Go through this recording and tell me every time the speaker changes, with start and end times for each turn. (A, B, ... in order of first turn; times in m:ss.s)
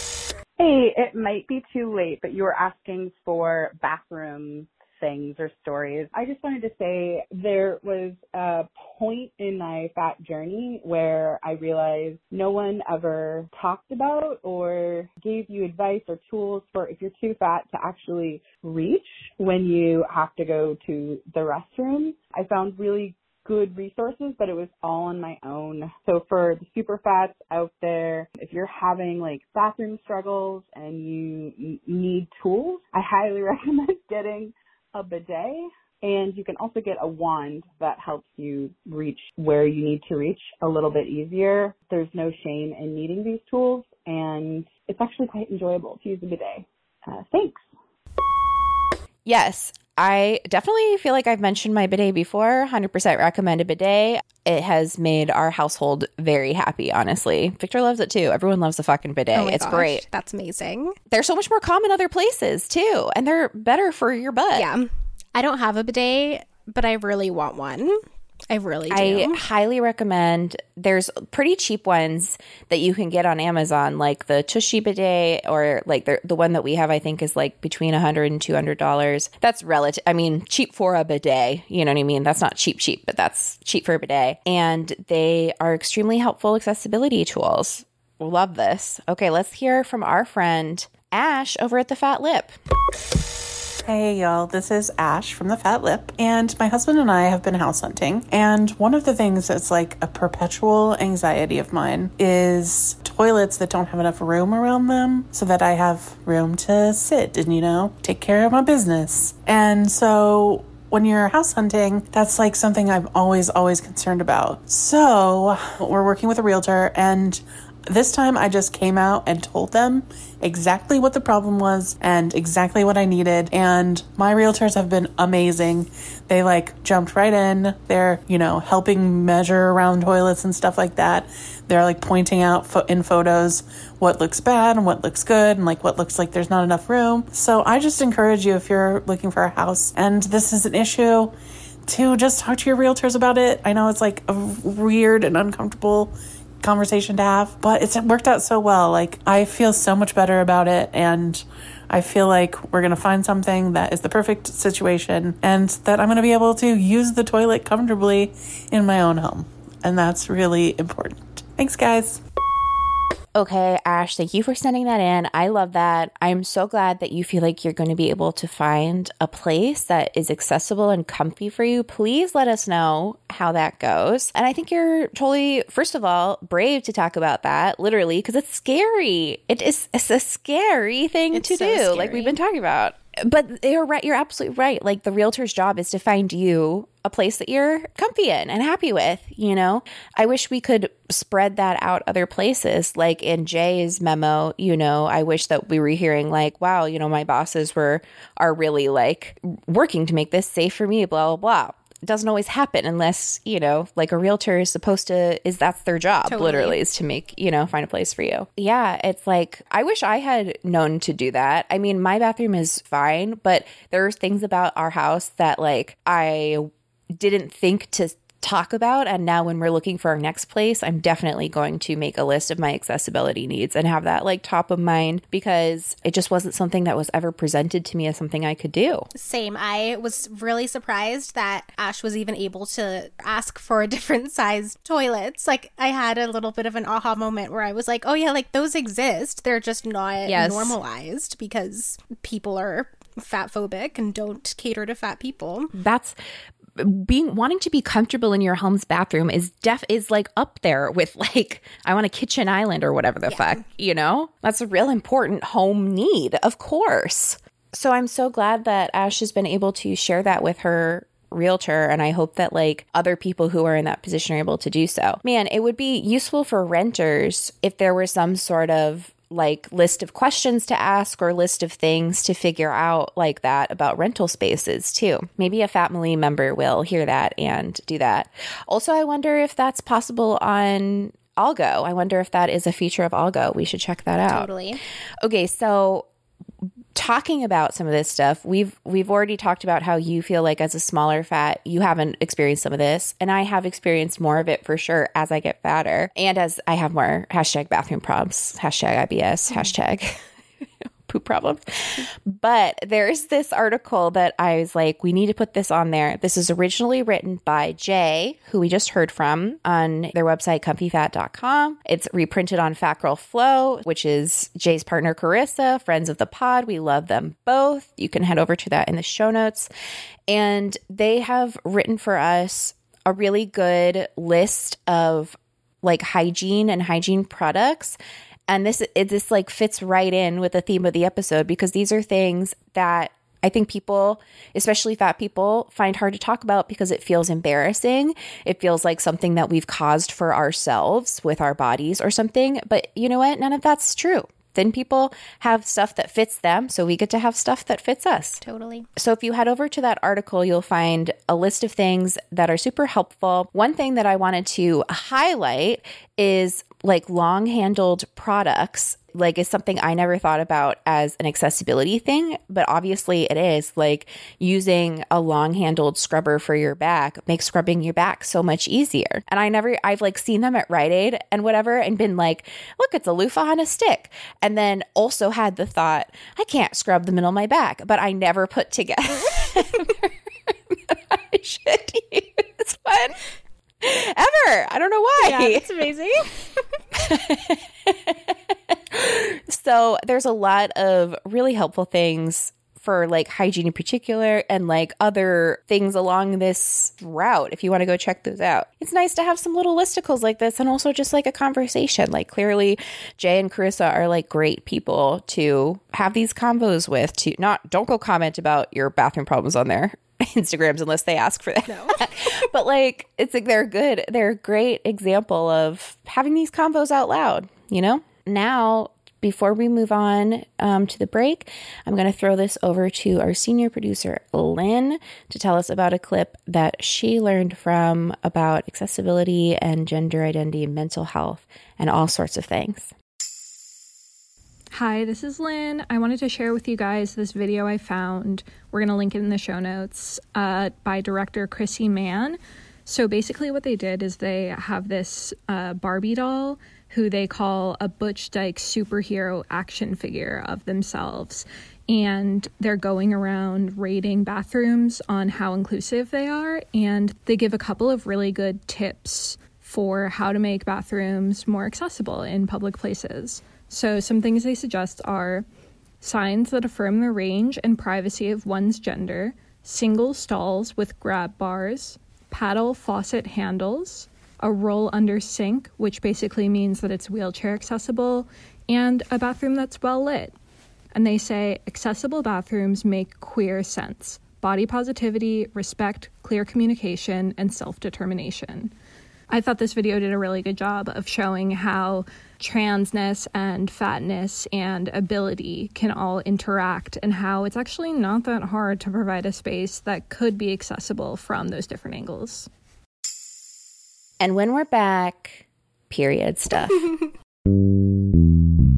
0:00.6-0:47.6 A
0:49.2-1:00.0 B
0:59.3-1:01.0 C
1:01.1-1:04.7 B
1:04.5-1:09.4 C
1:08.9-1:32.6 B
1:33.8-2:21.3 D
2:21.9-2:42.2 D
2:43.4-3:49.1 B
3:01.3-3:02.4 C
3:26.3-3:26.8 C
3:49.1-4:05.7 C
4:00.2-4:00.8 B
4:05.7-4:06.2 B
4:06.8-4:44.5 B
4:13.3-4:13.6 C
4:44.2-4:44.8 C
4:45.2-4:46.1 B
4:46.9-5:00.2 B
5:01.1-5:19.7 B
5:20.3-5:48.4 B
5:48.4-5:48.9 C
5:49.0-6:23.2 B
6:23.8-6:25.6 B
6:25.2-6:26.3 C
6:26.9-7:12.9 B
6:51.7-6:52.0 C
7:14.7-7:45.4 E
7:46.0-8:00.3 E
8:00.9-8:08.7 E
8:09.3-8:22.5 E
8:24.2-8:26.9 B